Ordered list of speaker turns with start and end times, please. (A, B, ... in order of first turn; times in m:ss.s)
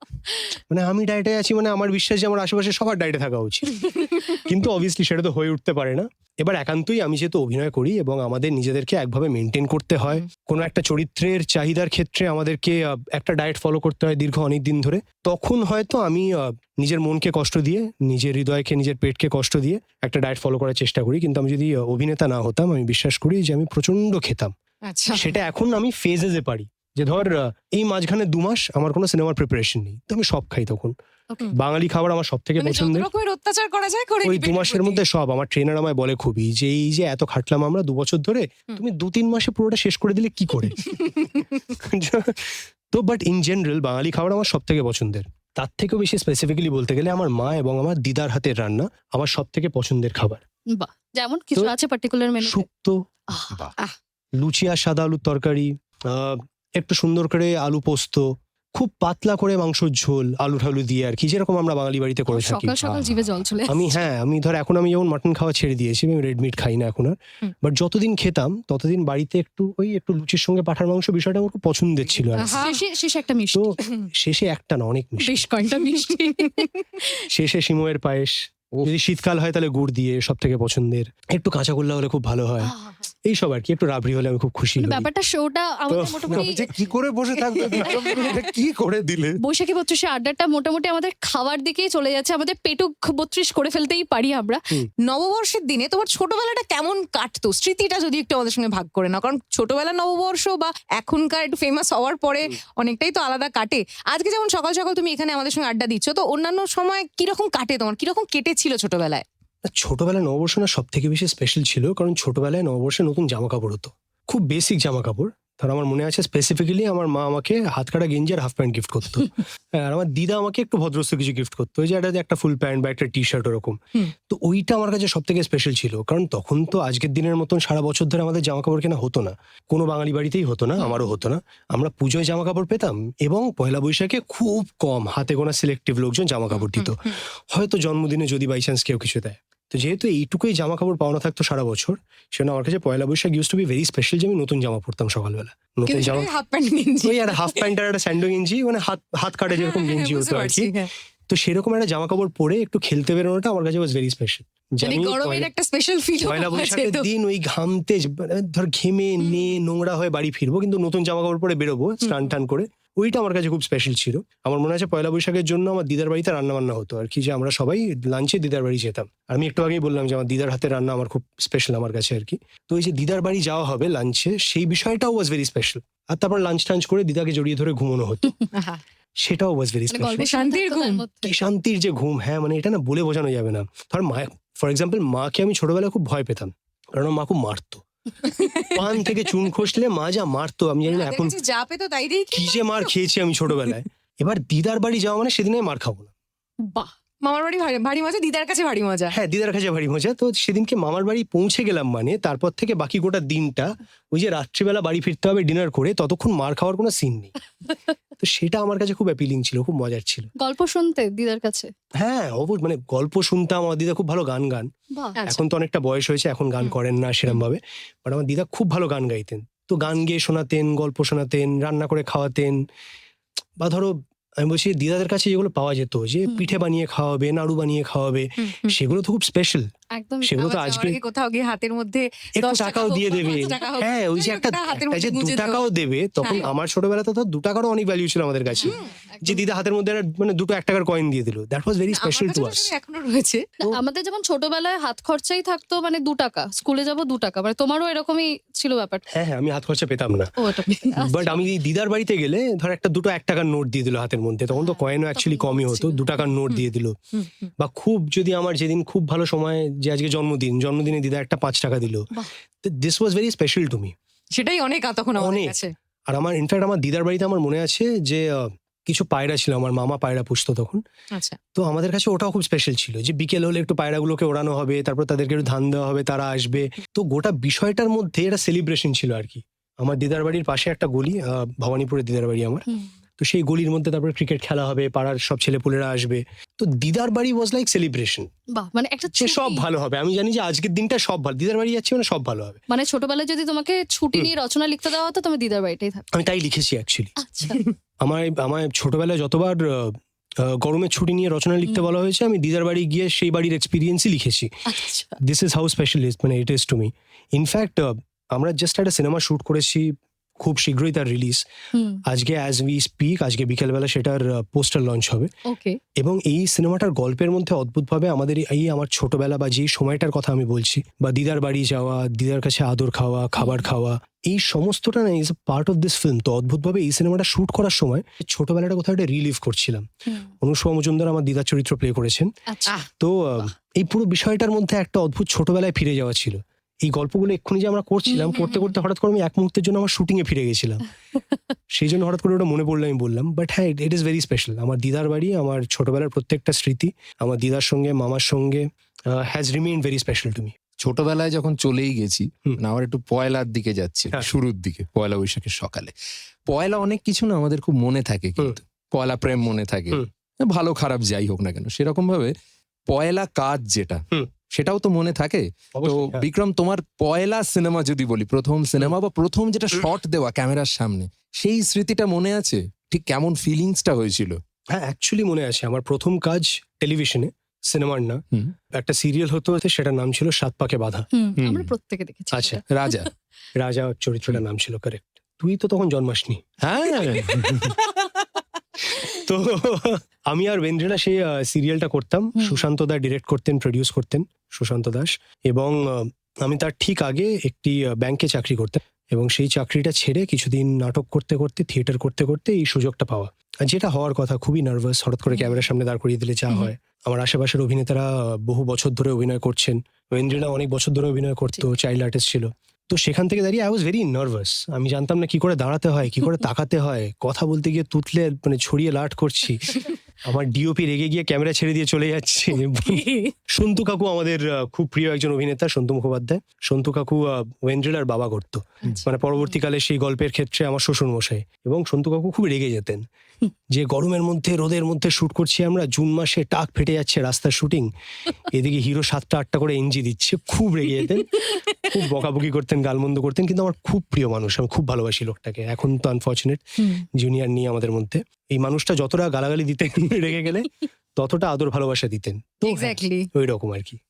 0:00.7-0:24.5 A
0:24.9-0:25.3 B
0:25.1-0:31.0 A
0:31.5-0:33.1 A
0:32.6-0:35.0 B
0:34.2-0:40.9 A
0:40.8-0:41.6 B
0:41.7-0:50.4 A
0:50.7-0:52.6 C
0:52.4-0:53.0 A
0:53.3-0:53.6 C
0:54.4-1:03.1 A
1:02.3-1:04.0 C
1:03.7-1:12.8 A
1:12.4-1:12.8 B
1:12.4-1:13.8 C
1:13.5-1:15.4 A
1:15.2-1:17.2 C
1:15.8-1:16.8 B
1:17.3-1:22.7 A
1:22.6-1:23.1 C
1:23.3-1:25.1 A
1:24.8-1:26.6 C
1:25.9-1:26.5 A
1:26.3-1:29.4 D
1:27.5-1:28.2 A
1:27.8-1:28.4 C
1:29.4-1:34.6 C
1:35.0-1:49.2 B
1:49.7-2:26.3 A
2:16.6-2:17.2 B
2:25.9-2:27.6 B
2:27.0-2:30.7 A
2:29.6-2:30.9 B
2:31.3-2:35.5 A
2:34.8-2:37.1 B
2:36.2-2:58.4 A
2:42.0-2:42.3 B
2:58.5-2:58.8 B
2:59.2-3:00.3 A
2:59.9-3:01.3 C
3:00.2-3:01.0 B
3:01.2-3:07.8 A
3:08.3-3:08.8 B
3:08.7-3:11.4 A
3:10.9-3:12.8 B
3:12.3-3:16.1 A
3:16.6-3:16.9 C
3:17.2-3:19.2 B
3:19.1-3:27.3 A
3:28.2-3:30.3 A
3:30.4-3:31.7 C
3:32.0-3:34.7 A
3:35.2-3:35.4 B
3:35.2-3:42.6 A
3:43.6-3:49.7 A
3:46.3-3:46.5 C
3:48.4-3:48.8 B
3:50.0-3:50.4 C
3:50.2-3:51.0 A
3:50.4-3:55.6 B
3:52.4-4:02.7 A
3:56.2-3:56.5 B
3:58.6-3:58.9 B
3:58.6-3:59.4 C
4:01.9-4:03.5 B
4:03.6-4:09.0 C
4:09.1-4:10.4 A
4:10.4-4:11.4 C
4:11.0-4:17.0 A
4:14.6-4:16.2 C
4:16.5-4:17.5 B
4:17.6-4:22.1 A
4:22.6-4:23.9 A
4:24.3-4:25.7 B
4:25.2-4:30.8 A
4:31.6-4:42.6 A
4:43.2-4:48.3 A
4:48.6-4:49.6 C
4:49.2-4:52.6 A
4:52.7-4:56.1 C
4:56.1-4:57.1 A
4:57.2-4:57.6 C
4:58.0-5:04.5 A
5:04.7-5:05.2 C
5:05.2-5:11.4 A
5:11.7-5:12.0 C
5:12.1-5:15.3 A
5:15.5-5:15.8 C
5:16.0-5:29.9 A
5:23.4-5:23.6 C
5:30.4-5:32.3 A
5:32.5-5:32.8 C
5:33.0-5:40.8 A
5:38.2-5:38.5 C
5:38.3-5:38.7 B
5:41.7-5:50.6 A
5:50.8-5:55.9 D
5:56.5-6:02.3 D
6:02.9-6:14.4 D
6:05.8-6:06.3 A
6:14.7-6:21.1 A
6:21.1-6:23.1 C
6:21.4-6:21.7 D
6:22.3-6:22.6 A
6:22.7-6:23.1 D
6:23.6-6:27.8 A
6:26.6-6:27.8 D
6:28.9-7:13.1 A
6:32.4-6:32.6 C
7:02.8-7:03.3 B
7:13.7-7:17.9 A
7:18.5-7:21.3 A
7:21.9-7:34.0 A
7:32.6-7:33.3 B